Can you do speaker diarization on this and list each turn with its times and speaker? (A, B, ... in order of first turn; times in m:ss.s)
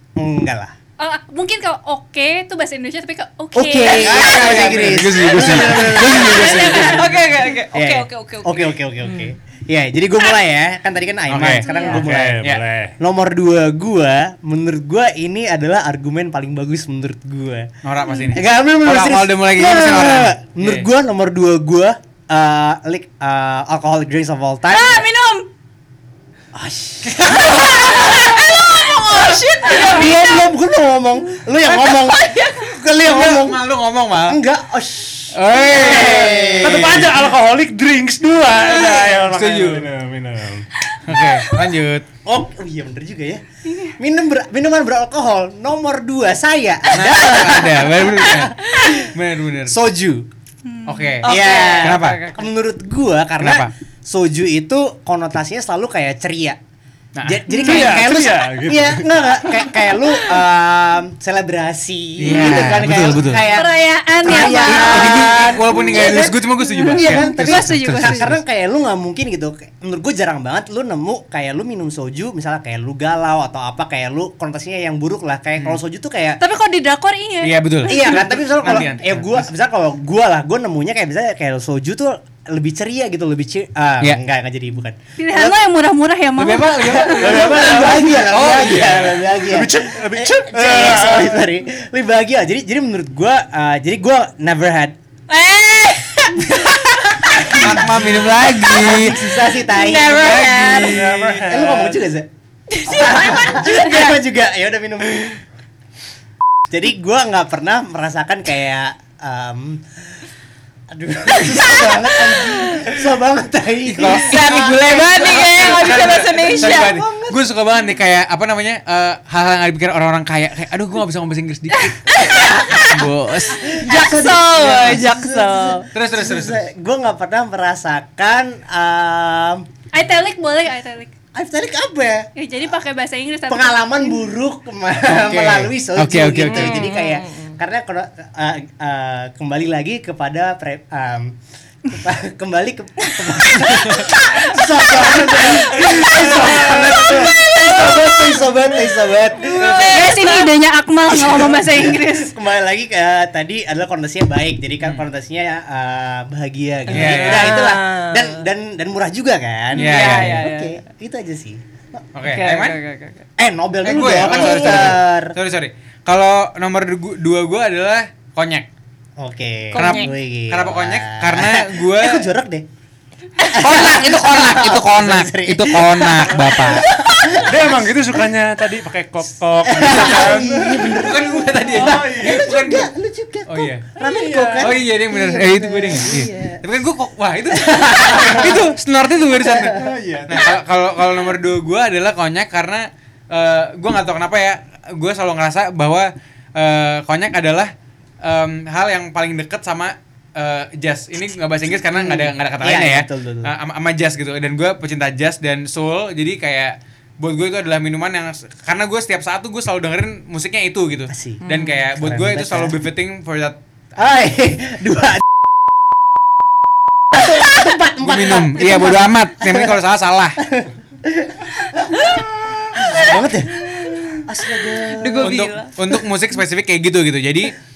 0:00.2-0:00.7 A
0:01.0-0:04.6 B
0:03.5-0:07.2 A
0:03.8-0:07.2 C
0:04.6-0:06.0 D
0:06.1-0:07.1 B
0:06.2-0:09.3 E
0:07.7-0:12.5 A
0:11.3-0:12.6 C
0:11.6-0:12.0 B
0:11.9-0:13.0 D
0:13.0-0:17.7 A
0:17.8-0:20.9 C
0:18.3-0:25.0 A
0:24.7-0:25.5 B
0:26.5-0:28.4 A
0:27.1-0:27.5 C
0:27.2-0:30.5 E
0:29.6-0:29.9 B
0:29.6-0:33.6 A
0:31.7-0:32.7 E
0:33.0-0:34.4 C
0:34.3-0:37.1 A
0:35.3-0:37.1 C
0:36.0-0:40.7 D
0:39.2-0:39.8 C
0:41.0-0:42.0 C
0:41.1-0:41.7 B
0:42.2-0:43.4 A
0:43.6-0:43.9 B
0:44.0-0:49.1 A
0:46.9-0:49.8 C
0:49.7-0:50.3 A
0:50.6-0:51.2 B
0:50.8-0:52.2 C
0:51.2-0:52.4 E
0:51.2-0:56.6 A
0:53.4-0:53.7 C
0:57.2-0:57.4 C
0:57.2-1:16.4 A
0:57.5-0:58.0 B
0:57.6-0:59.6 D
1:02.2-1:03.5 C
1:03.4-1:08.3 B
1:04.3-1:08.4 C
1:16.4-1:18.8 B
1:17.4-1:19.4 C
1:17.9-1:25.6 A
1:25.2-1:27.4 B
1:26.4-1:29.2 C
1:26.9-1:35.0 A
1:27.1-1:28.5 D
1:29.4-1:31.5 D
1:35.3-1:37.7 E
1:37.3-1:42.3 A
1:37.4-1:39.3 C
1:39.5-1:41.0 E
1:40.1-1:41.5 C
1:40.8-1:42.0 D
1:42.7-1:44.2 E
1:42.8-1:45.4 A
1:46.7-1:49.8 A
1:50.9-1:54.8 A
1:51.5-1:52.8 E
1:53.8-2:02.2 C
1:54.0-1:57.0 E
1:55.9-1:57.4 A
2:02.0-2:03.0 E
2:02.3-2:02.8 A
2:02.8-2:03.7 C
2:03.5-2:09.6 A
2:03.6-2:05.9 E
2:05.9-2:06.6 C
2:09.9-2:11.1 B
2:11.3-2:12.3 A
2:12.4-2:14.2 B
2:13.5-2:21.4 A
2:15.0-2:16.9 C
2:16.4-2:17.6 E
2:21.9-2:30.0 A
2:23.8-2:24.1 C
2:25.0-2:27.5 D
2:26.7-2:28.3 E
2:29.4-2:30.5 E
2:29.6-2:32.3 B
2:31.1-2:42.0 A
2:36.9-2:37.6 C
2:36.9-2:38.4 E
2:39.7-2:40.8 E
2:39.8-2:40.4 C
2:42.1-2:42.8 C
2:42.2-2:43.2 E
2:43.4-2:45.4 A
2:43.8-2:48.7 C
2:49.2-2:52.6 A
2:49.7-2:50.1 E
2:49.8-2:52.2 C
2:53.5-2:56.8 C
2:53.5-2:57.8 A
2:57.4-3:01.0 D
2:59.6-3:06.6 A
3:00.8-3:02.9 C
3:01.8-3:02.5 D
3:03.5-3:03.9 C
3:04.0-3:04.7 D
3:04.6-3:33.6 C
3:07.5-3:08.6 A
3:08.2-3:08.6 D
3:09.5-3:09.8 A
3:09.6-3:10.5 D
3:21.9-3:23.5 A
3:31.1-3:31.4 A
3:31.4-3:31.8 E
3:32.0-3:32.8 A
3:34.0-3:35.4 A
3:37.1-3:39.7 A
3:38.0-3:40.4 C
3:40.4-3:45.4 A
3:42.8-3:44.2 E
3:44.8-3:45.7 E
3:45.2-3:47.6 C